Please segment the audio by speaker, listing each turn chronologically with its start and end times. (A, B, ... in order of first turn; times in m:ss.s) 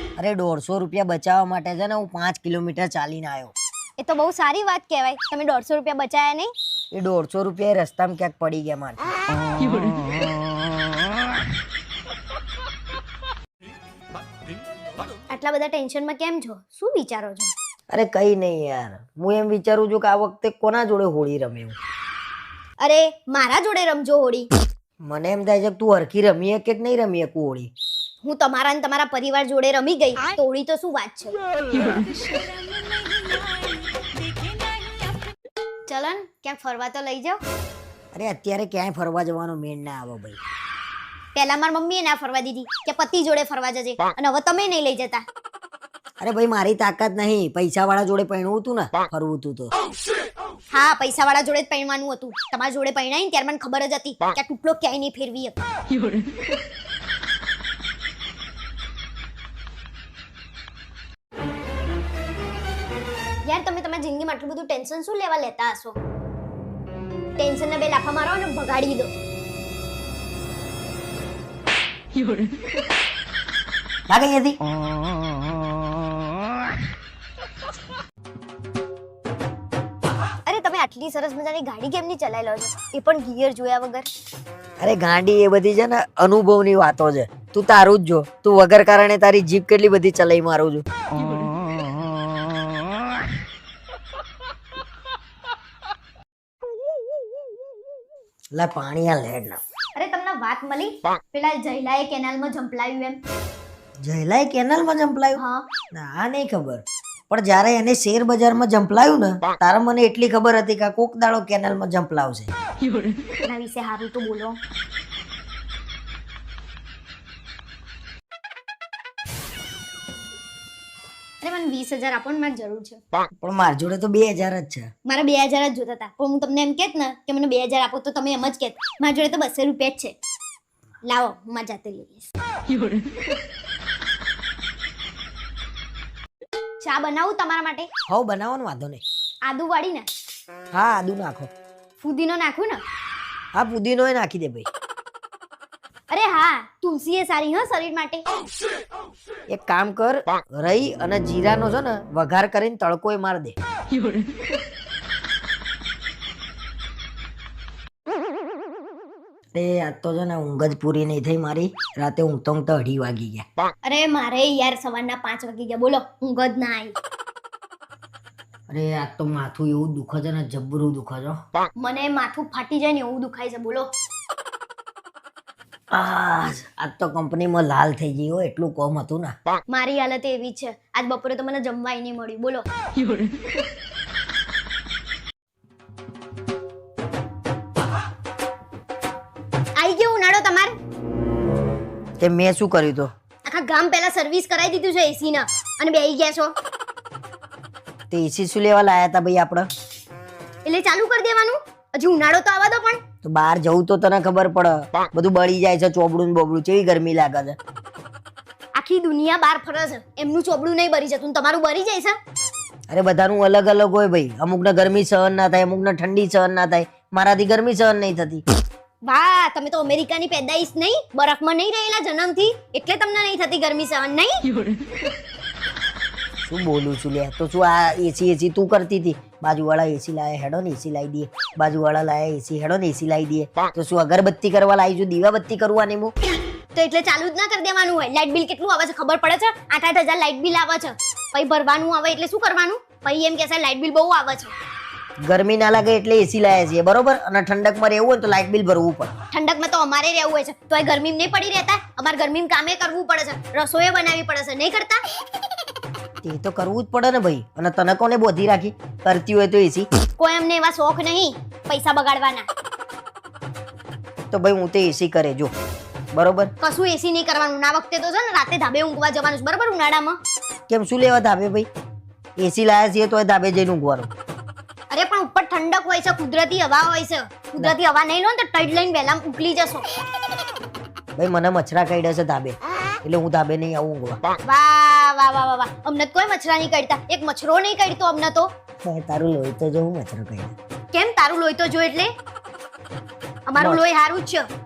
0:00.2-0:03.5 A
0:04.0-0:06.5 B
0:06.9-0:09.1 A
0:15.3-0:17.5 B
0:17.9-0:21.8 A
0:22.8-0:24.5 B
0:25.0-0:27.7 A
0:28.2-0:32.5 B
0:35.9-0:37.4 B
0:38.1-0:40.4 A
0:41.4-0:45.2 B
0:46.2-0:49.7 A
0:50.7-0:55.7 B
1:03.5-1:06.0 B
1:07.4-1:09.1 B
1:14.1-1:14.6 A
1:20.4-1:24.1 B
1:24.8-1:30.8 A
1:38.5-1:39.6 A
1:40.0-1:43.2 B
1:44.0-1:45.4 A
1:45.4-1:45.6 B
1:45.9-1:52.5 A
1:53.4-1:54.6 B
2:01.4-2:03.0 B
2:03.4-2:04.9 A
2:05.1-2:10.1 B
2:11.0-2:12.3 B
2:16.8-2:17.9 B
2:18.1-2:19.0 A
2:19.4-2:20.1 B
2:20.7-2:21.5 A
2:22.0-2:22.8 B
2:23.5-2:24.7 A
2:26.1-2:28.2 B
2:29.5-2:33.6 A
2:39.5-2:43.4 A
2:43.8-2:47.0 B
2:48.7-2:51.4 A
2:51.8-2:53.9 B
2:55.9-2:59.3 A
2:59.7-3:02.6 B
3:09.8-3:10.8 B
3:12.2-3:13.1 A
3:13.4-3:16.5 B
3:18.1-3:19.7 A
3:20.6-3:23.0 B
3:23.2-3:27.6 A
3:28.8-3:32.2 B
3:32.9-3:38.4 A
3:39.0-3:44.5 B
3:46.4-3:56.1 A
3:56.8-4:04.5 B
4:05.2-4:09.1 A
4:09.3-4:15.0 B
4:16.2-4:19.9 A
4:20.2-4:22.5 B
4:24.3-4:25.5 A
4:26.1-4:26.5 A
4:26.6-4:30.2 B
4:30.7-4:31.7 A
4:32.4-4:34.1 A
4:34.9-4:40.0 B
4:41.2-4:44.2 A
4:44.4-4:48.5 B
4:48.8-4:50.5 A
4:50.9-4:52.1 B
4:53.5-4:54.5 B
4:53.6-4:53.8 A